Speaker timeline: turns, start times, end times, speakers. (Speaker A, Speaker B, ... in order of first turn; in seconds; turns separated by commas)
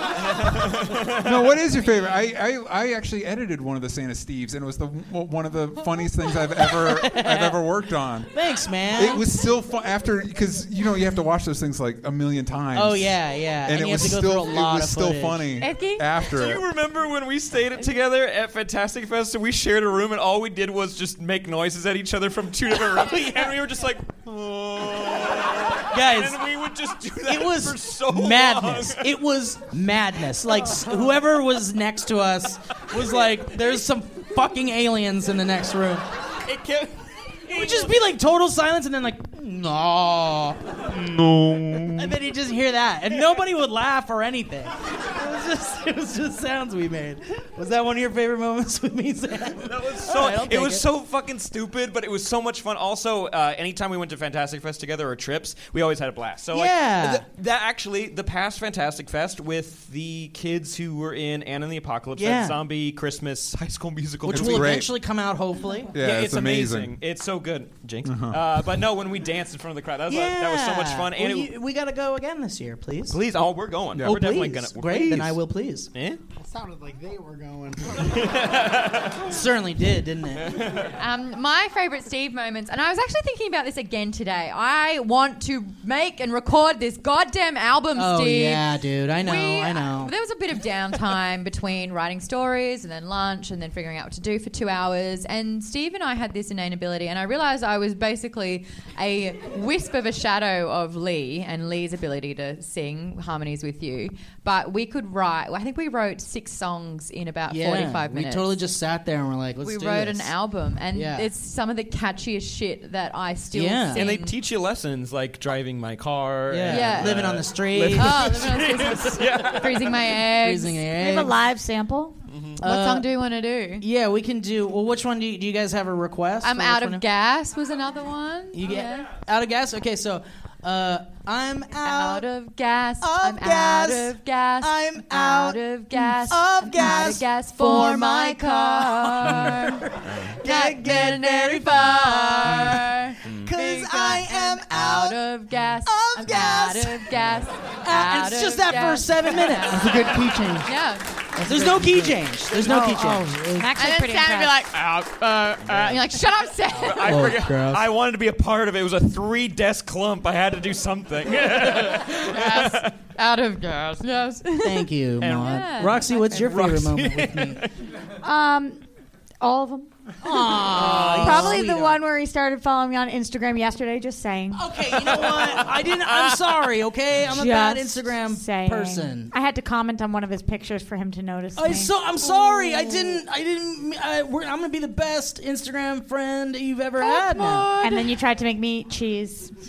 Speaker A: 0.5-1.2, Speaker B: 1.2-16.6, Speaker C: 6.8-7.6, Speaker C: 8.3-9.3, Speaker C: 12.7-15.5, Speaker D: 15.6-16.1, Speaker A: 16.2-29.0, Speaker C: 25.9-26.4, Speaker C: 27.2-36.0, Speaker A: 36.5-36.9, Speaker C: 37.5-40.8, Speaker A: 37.5-37.9, Speaker B: 41.0-42.1, Speaker C: 41.8-50.9, Speaker A: 49.6-64.8, Speaker C: 56.5-57.2, Speaker C: 62.2-62.6, Speaker C: 64.2-65.9, Speaker B: 64.3-64.9, Speaker B: 65.9-67.0, Speaker A: 66.0-71.5, Speaker B: 68.0-68.4, Speaker C: 70.1-73.2, Speaker A: 73.1-75.4, Speaker C: 74.0-75.9, Speaker A: 75.9-76.2, Speaker E: 76.4-78.2, Speaker A: 77.9-79.2, Speaker C: 79.2-80.8, Speaker A: 80.5-80.9, Speaker D: 81.0-108.6, Speaker C: 87.9-90.1, Speaker C: 107.5-110.3, Speaker D: 109.6-114.3, Speaker C: 110.9-111.3, Speaker C: 113.5-114.1, Speaker A: 113.9-120.0, Speaker C: 116.5-118.4, Speaker D: 116.7-117.2, Speaker D: 117.9-120.8, Speaker C: 120.2-121.4, Speaker F: 120.9-122.2, Speaker A: 122.3-122.6, Speaker C: 122.6-123.1, Speaker D: 122.6-123.8, Speaker C: 123.8-127.0, Speaker D: 126.4-129.1, Speaker C: 128.5-132.3, Speaker D: 131.8-139.8, Speaker C: 133.0-145.2, Speaker D: 140.4-151.0, Speaker C: 145.8-147.1, Speaker C: 147.8-150.0, Speaker E: 149.7-150.7, Speaker E: 151.3-153.6, Speaker C: 151.4-153.7, Speaker F: 153.5-154.6, Speaker D: 153.8-154.8, Speaker A: 154.7-156.1, Speaker D: 155.7-157.2, Speaker A: 156.7-162.9, Speaker C: 157.0-157.8, Speaker D: 162.1-166.6, Speaker C: 164.6-167.6, Speaker A: 165.2-167.7, Speaker F: 168.2-168.8, Speaker F: 169.4-174.7, Speaker C: 170.2-172.0, Speaker A: 170.6-171.7, Speaker C: 174.5-179.3, Speaker A: 175.1-176.6, Speaker F: 177.2-181.9, Speaker C: 181.6-187.8, Speaker D: 182.2-182.9, Speaker F: 182.5-183.1, Speaker D: 187.0-188.1, Speaker F: 187.8-189.5